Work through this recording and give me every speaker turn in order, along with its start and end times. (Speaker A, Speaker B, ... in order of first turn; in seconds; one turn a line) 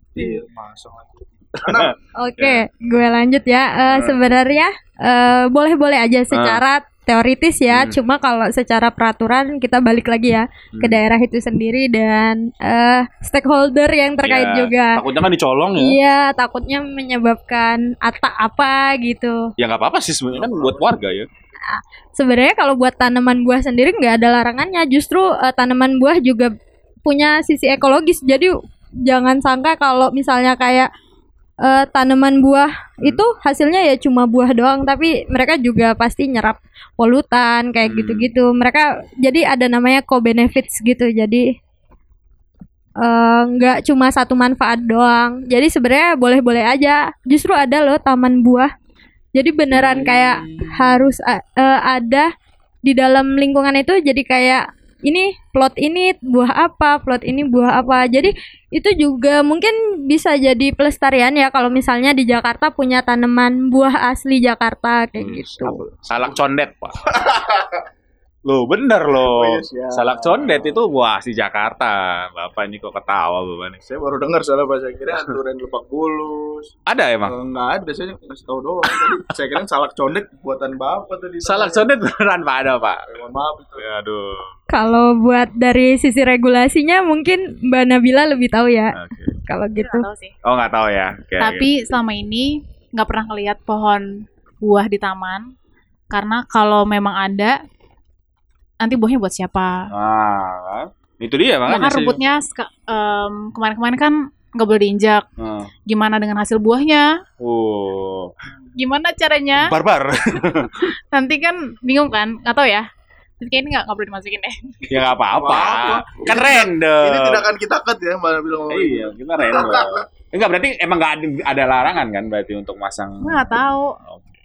Speaker A: 0.1-1.9
Speaker B: 1.6-2.6
Speaker C: 2.2-15.0
Speaker B: 3.9-4.2
Speaker B: 6.3-6.6
Speaker B: 7.7-8.0
Speaker B: 10.7-11.0
Speaker B: 14.2-16.0
Speaker C: 15.8-19.5
Speaker B: 19.6-21.3
Speaker A: 20.3-20.9
Speaker C: 21.7-26.5
Speaker C: 27.1-28.6
Speaker C: 29.1-30.9
Speaker C: 31.6-41.5
Speaker B: 37.8-38.3
Speaker C: 43.0-48.7
Speaker C: 49.4-52.3
Speaker B: 49.7-51.1
Speaker C: 52.9-65.8
Speaker B: 65.2-67.0
Speaker A: 67.2-67.7
Speaker B: 68.4-73.8
Speaker A: 69.2-70.8
Speaker A: 73.8-76.7
Speaker B: 76.9-77.3
Speaker A: 77.2-81.9
Speaker B: 81.4-83.0
Speaker A: 83.1-83.9
Speaker B: 83.8-84.5
Speaker C: 84.7-90.1
Speaker B: 88.9-89.3
Speaker D: 89.8-90.3
Speaker B: 90.4-91.7
Speaker D: 91.4-95.5
Speaker D: 96.1-97.6
Speaker D: 98.8-99.8
Speaker B: 99.9-102.2
Speaker D: 101.7-105.2
Speaker B: 105.4-105.7
Speaker D: 105.9-107.1
Speaker B: 107.4-108.3
Speaker D: 108.8-109.7
Speaker B: 109.6-110.9
Speaker D: 111.1-112.9
Speaker D: 113.4-114.6
Speaker B: 114.9-117.5
Speaker A: 115.3-120.0
Speaker B: 118.7-124.3
Speaker D: 123.2-124.0